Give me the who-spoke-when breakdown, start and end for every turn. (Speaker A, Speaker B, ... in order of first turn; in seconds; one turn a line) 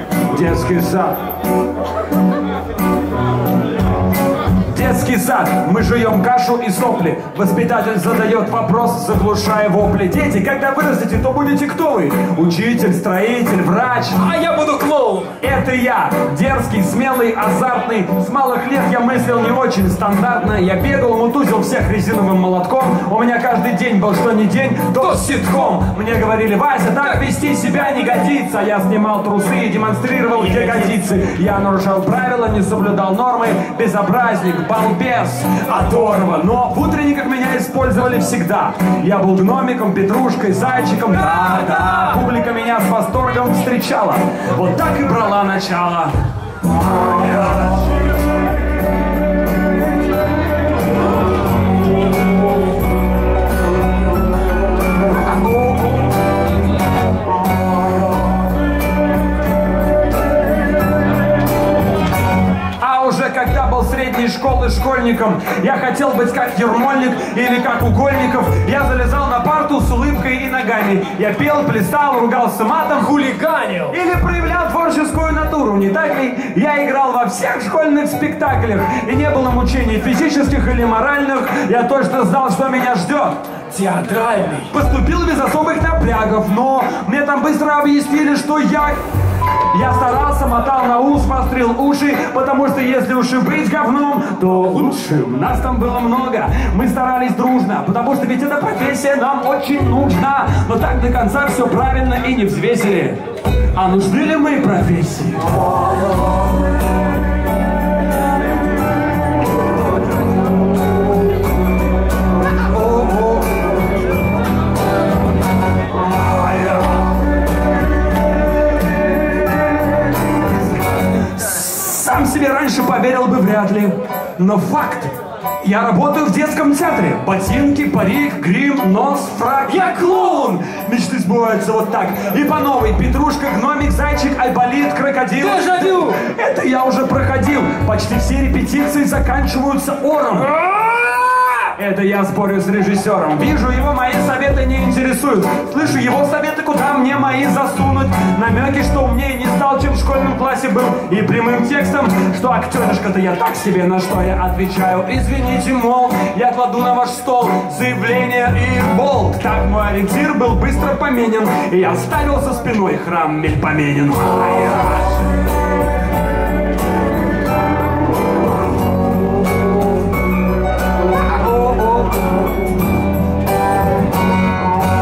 Speaker A: 0.2-1.2
Speaker A: 4.7-14.2
Speaker B: 14.2-15.3
Speaker A: 15.4-46.1
Speaker B: 41.3-42.0
Speaker A: 47.0-47.8
Speaker A: 62.8-73.3
Speaker B: 73.1-74.0
Speaker A: 73.9-83.4
Speaker B: 83.7-84.7
Speaker A: 84.6-89.0
Speaker A: 89.7-103.2
Speaker A: 103.7-105.6
Speaker A: 112.8-113.3
Speaker A: 121.2-165.2
Speaker B: 129.8-130.3
Speaker B: 135.4-136.2
Speaker A: 171.3-172.1